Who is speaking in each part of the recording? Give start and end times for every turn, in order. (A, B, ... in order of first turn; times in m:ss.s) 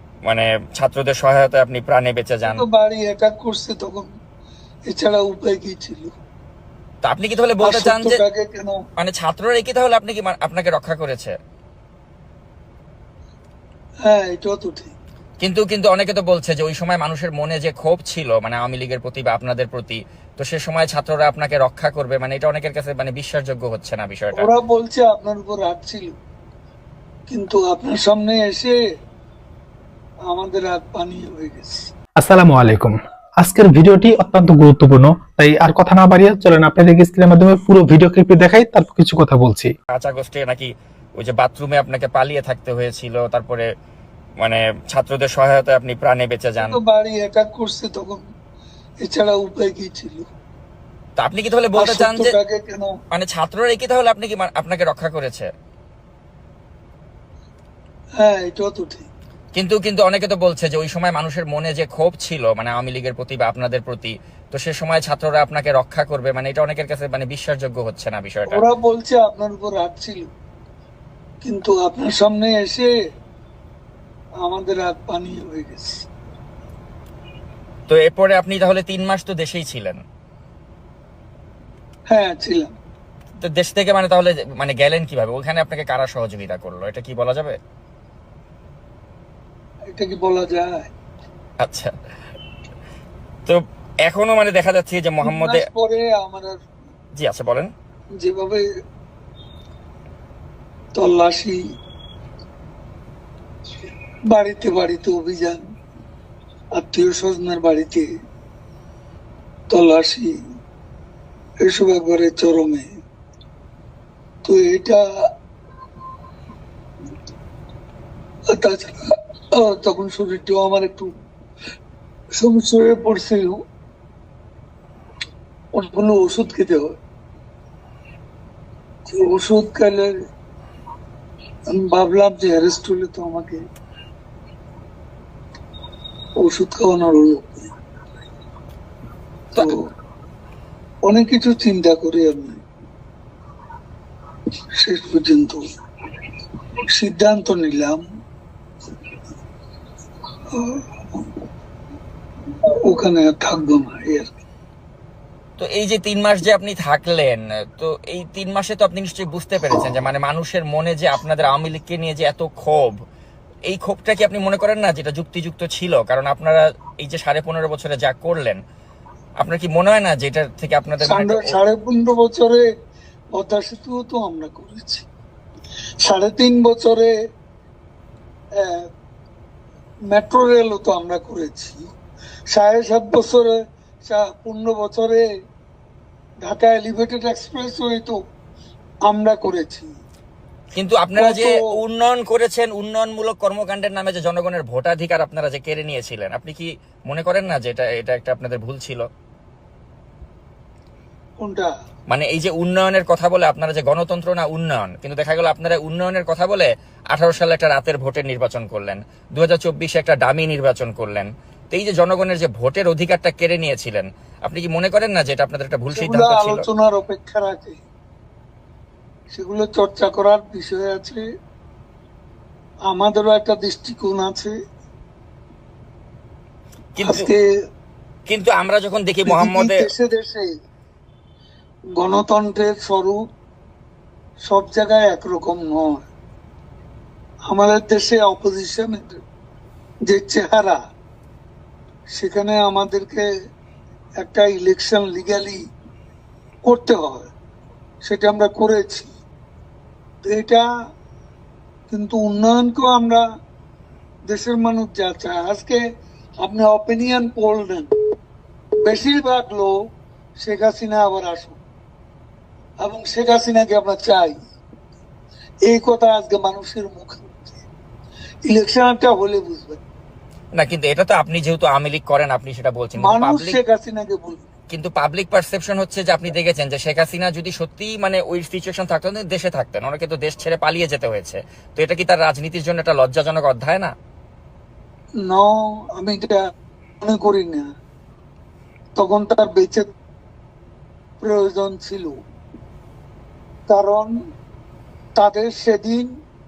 0:00.3-0:02.6 A
0:02.5-0:04.1 B
0:04.9-0:06.1 B
0:07.0-0:08.2 A
0:07.6-0:08.8 B
0:09.0-0:11.3 A
0:14.0-0:14.9 B
0:15.4-0:24.5 A
0:24.3-0:26.2 B
0:27.3-0:28.8 B
0:30.3-0:31.9 B
0:32.2-0:39.7 C
0:39.9-0:43.6 A
0:44.4-0:46.8 A
0:46.6-0:48.2 B
0:49.0-0:50.3 B
0:51.2-0:52.3 A
0:51.8-0:52.9 B
0:53.1-0:55.5 A
0:58.2-0:59.1 B
0:59.6-1:08.6 A
1:08.5-1:10.3 B
1:11.4-1:12.9 B
1:14.4-1:16.1 B
1:17.9-1:20.0 A
1:22.1-1:22.7 B
1:23.4-1:27.6 A
1:29.9-1:30.9 B
1:31.6-1:31.9 A
1:33.4-1:35.6 A
1:35.2-1:36.6 B
1:37.2-1:37.7 A
1:38.2-1:38.6 B
1:40.9-1:41.6 B
1:44.3-1:45.6 B
1:46.8-1:48.1 B
1:49.7-1:50.3 B
1:51.6-1:52.9 B
1:54.4-1:55.0 B
1:58.5-1:58.9 B
1:59.6-2:01.1 B
2:02.4-2:03.6 B
2:05.7-2:07.0 B
2:09.1-2:10.1 B
2:11.7-2:13.6 B
2:16.4-2:17.7 B
2:19.6-2:19.8 B
2:21.0-2:22.6 B
2:24.8-2:25.6 B
2:26.9-2:28.0 B
2:30.5-2:31.3 B
2:32.9-2:34.3 B
2:35.6-2:43.0 A
2:43.7-2:48.6 A
2:49.4-2:51.6 A
2:51.0-2:52.7 B
2:53.3-2:55.0 B
2:56.0-2:57.1 B
2:58.6-2:58.9 B
3:00.1-3:01.8 B
3:02.5-3:03.5 B
3:04.1-3:05.3 B
3:06.4-3:08.2 B
3:09.1-3:09.9 B
3:10.8-3:19.0 A
3:11.2-3:11.7 B
3:21.4-3:21.7 B
3:22.1-3:36.7 A
3:35.9-3:37.8 B
3:39.3-3:41.2 B
3:42.9-3:44.5 B
3:47.0-3:47.3 A
3:47.1-3:47.4 B
3:48.3-3:49.9 A
3:49.3-3:50.5 B
3:52.0-3:53.2 B
3:54.5-3:56.0 B
3:57.5-3:59.2 B
4:00.1-4:00.8 B
4:02.1-4:03.2 B
4:04.2-4:05.6 B
4:06.7-4:07.3 B
4:08.0-4:09.1 B
4:10.2-4:10.7 B
4:11.9-4:13.2 B
4:14.3-4:15.8 B
4:16.4-4:17.9 B
4:18.9-4:19.7 B
4:20.4-4:21.6 B
4:22.8-4:24.4 B
4:25.7-4:27.6 B
4:28.5-4:29.8 B
4:30.6-4:33.6 A
4:33.0-4:34.4 B
4:34.7-4:43.9 A
4:45.3-4:46.4 B
4:47.0-4:47.7 B
4:49.0-4:49.8 B
4:51.2-4:52.2 B
4:53.7-4:54.1 B
4:55.2-4:56.1 B